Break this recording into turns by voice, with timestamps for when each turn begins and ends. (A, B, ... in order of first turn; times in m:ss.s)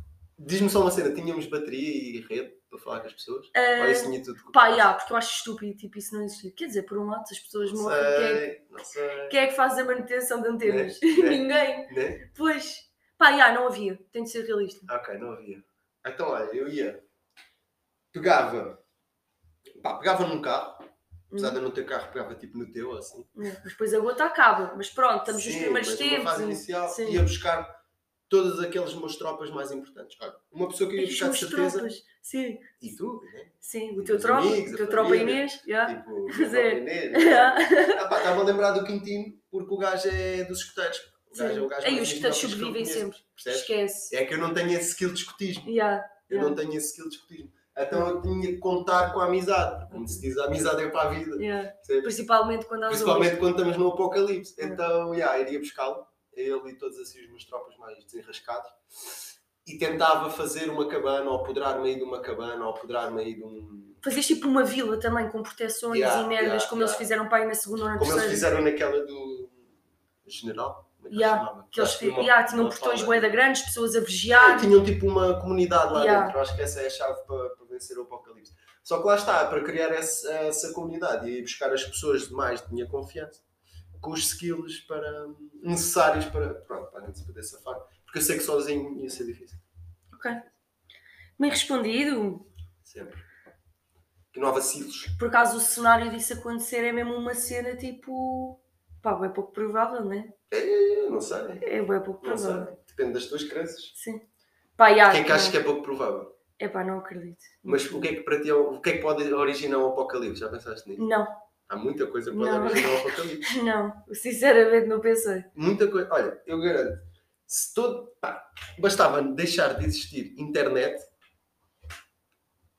0:00.4-0:04.9 A
0:03.5-0:08.4 B
0:07.6-0:09.4 A
0:09.3-0:14.9 B
0:10.6-0:12.2 A
0:14.9-0:17.0 A
0:18.1-0:18.8 A
0:19.8-0:23.3 A
0:21.3-0:21.6 B
0:23.4-0:27.2 B
0:25.3-0:31.9 A
0:31.0-0:32.7 B
0:32.8-0:45.7 A
0:33.6-0:38.2 B
0:41.3-0:44.1 B
0:45.6-0:46.6 B
0:46.3-0:52.1 A
0:49.9-0:50.2 B
0:51.4-0:53.4 B
0:52.9-0:58.8 A
0:59.6-1:04.0 A
1:04.0-1:08.5 B
1:05.9-1:07.0 A
1:08.0-1:09.6 A
1:10.2-1:13.4 A
1:11.1-1:14.7 B
1:14.3-1:23.4 A
1:15.9-1:16.4 B
1:24.0-1:29.6 A
1:30.1-1:30.4 B
1:31.4-1:32.5 B
1:32.8-1:33.2 A
1:34.3-1:35.1 A
1:35.2-1:40.3 B
1:40.5-1:41.6 A
1:41.6-1:42.7 B
1:42.2-1:43.9 A
1:44.0-1:44.2 B
1:44.8-1:45.6 B
1:45.1-1:46.3 A
1:46.6-1:48.1 B
1:47.6-1:51.1 A
1:51.0-1:51.4 B
1:51.7-1:53.5 A
1:52.3-1:55.5 B
1:55.6-2:01.1 A